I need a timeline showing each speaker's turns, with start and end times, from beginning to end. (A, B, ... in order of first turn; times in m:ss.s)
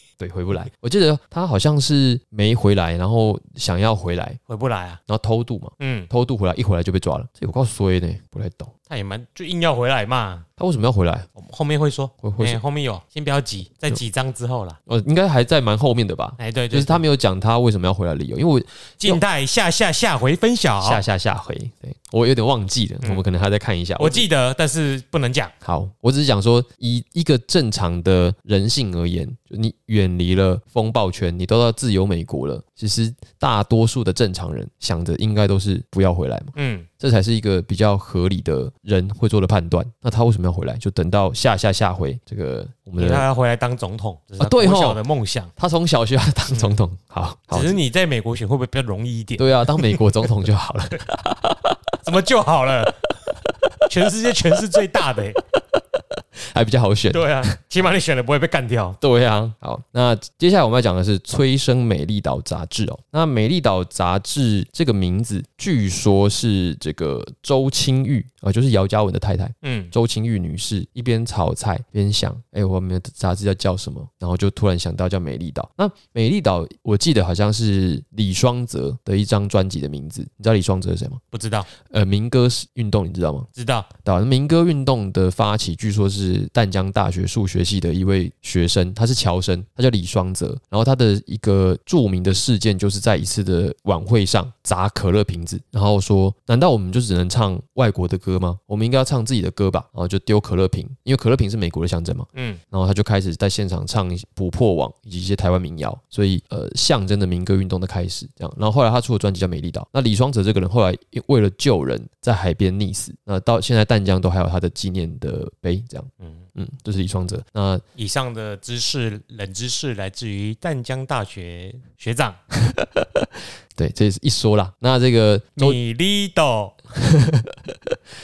0:00.2-0:04.4 A
0:04.5-0:05.0 B
0:05.1-0:08.7 A
0:05.8-0:06.1 B
0:08.9-0:10.4 B
0:10.6-0:11.3 A
0:11.4-0:14.8 B
0:12.2-0:12.6 A
0:14.9-0:19.2 A
0:16.4-0:17.0 B
0:19.0-0:21.0 B
0:20.8-0:24.2 A
0:24.0-0:25.5 B
0:25.6-0:43.3 A
0:36.5-0:36.9 B
0:43.0-0:45.5 B
0:44.4-0:45.0 A
0:45.6-0:47.8 A
0:46.5-0:46.8 B
0:47.5-0:50.4 B
0:49.4-0:51.8 A
0:52.0-0:53.1 B
0:53.9-0:55.4 B
0:56.4-0:57.6 A
0:57.1-0:59.0 B
0:59.0-1:21.2 A
1:09.6-1:09.9 B
1:21.3-1:21.7 B
1:21.9-1:23.5 A
1:23.5-1:23.9 B
1:24.0-1:57.8 A
1:42.3-1:42.6 B
1:56.2-1:56.4 B
1:58.0-2:02.4 B
2:02.6-2:05.8 A
2:05.6-2:06.8 B
2:06.9-2:08.0 A